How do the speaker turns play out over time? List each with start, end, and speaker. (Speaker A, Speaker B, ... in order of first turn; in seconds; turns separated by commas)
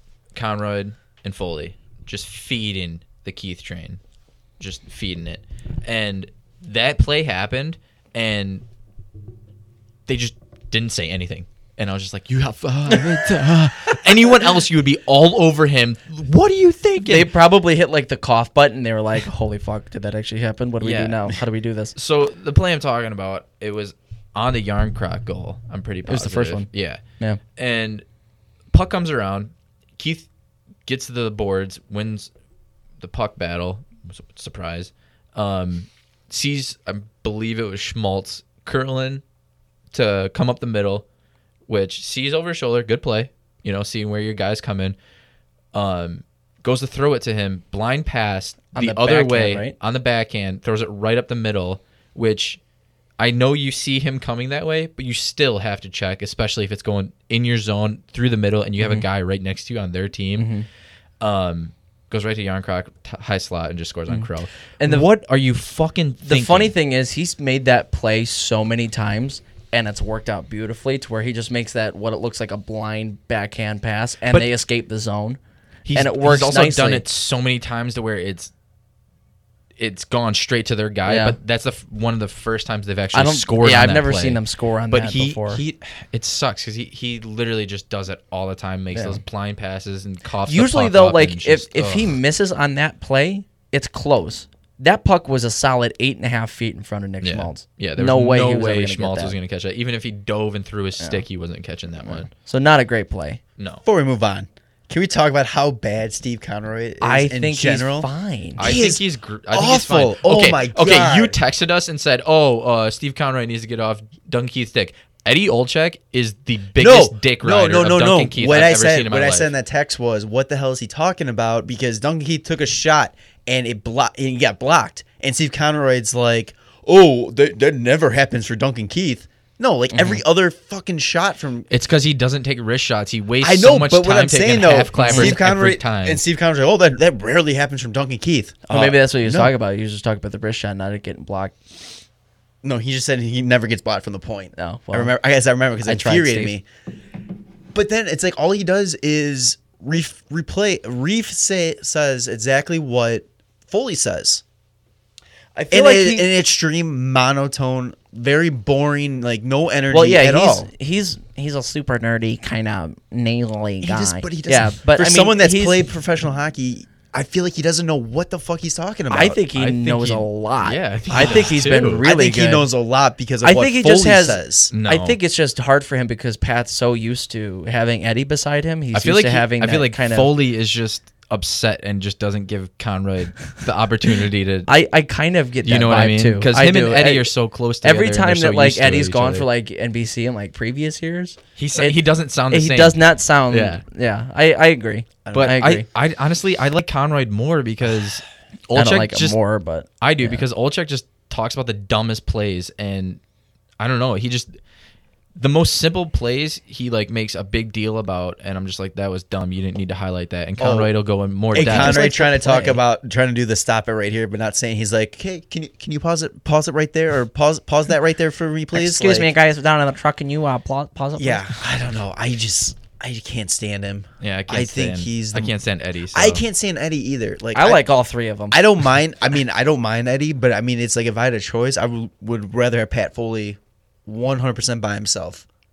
Speaker A: 0.3-4.0, Speaker A: 4.6-8.6, Speaker A: 10.1-17.3, Speaker B: 17.0-21.9, Speaker A: 20.8-21.4, Speaker A: 21.9-27.0, Speaker B: 26.0-27.4, Speaker A: 27.6-28.0, Speaker A: 28.7-30.3, Speaker A: 30.8-32.3, Speaker A: 33.0-39.2, Speaker A: 39.9-41.0, Speaker A: 41.7-45.0, Speaker A: 45.7-52.6, Speaker B: 48.7-49.7, Speaker A: 53.2-60.5, Speaker B: 60.4-60.7, Speaker A: 61.2-66.7, Speaker B: 64.1-65.1, Speaker B: 66.2-75.4, Speaker A: 75.8-78.5, Speaker B: 75.9-77.0, Speaker A: 79.8-92.2, Speaker B: 81.0-81.4, Speaker B: 83.1-85.6, Speaker B: 88.9-89.2, Speaker B: 90.5-99.3, Speaker A: 97.2-102.3, Speaker B: 101.0-101.2, Speaker B: 102.0-103.4, Speaker A: 103.6-103.8, Speaker C: 103.8-108.1, Speaker B: 107.0-108.7, Speaker A: 108.6-119.5, Speaker C: 108.6-111.4, Speaker C: 116.8-131.7, Speaker B: 129.9-130.2, Speaker A: 131.7-136.2, Speaker C: 133.4-139.5, Speaker B: 135.0-135.3, Speaker B: 138.7-141.5, Speaker C: 142.6-146.7, Speaker B: 144.6-145.1, Speaker B: 145.8-146.5, Speaker C: 147.7-154.4, Speaker B: 155.5-156.3, Speaker C: 155.7-160.7, Speaker B: 159.9-165.9, Speaker C: 163.8-169.4, Speaker B: 169.1-172.7, Speaker A: 169.5-172.0, Speaker C: 172.0-174.7, Speaker B: 173.4-180.3, Speaker A: 174.7-175.2, Speaker A: 178.9-184.7, Speaker B: 184.7-195.8, Speaker A: 185.6-189.4, Speaker A: 191.6-193.8, Speaker C: 195.2-195.6, Speaker A: 195.3-199.4, Speaker B: 198.7-200.4, Speaker A: 200.0-203.2, Speaker A: 203.8-204.5, Speaker A: 205.3-212.0, Speaker C: 210.6-210.9, Speaker C: 211.5-219.3, Speaker B: 211.6-212.8, Speaker B: 218.7-221.5, Speaker C: 221.2-225.5, Speaker A: 224.2-226.4, Speaker C: 226.1-227.9, Speaker B: 227.5-228.6, Speaker C: 228.5-235.4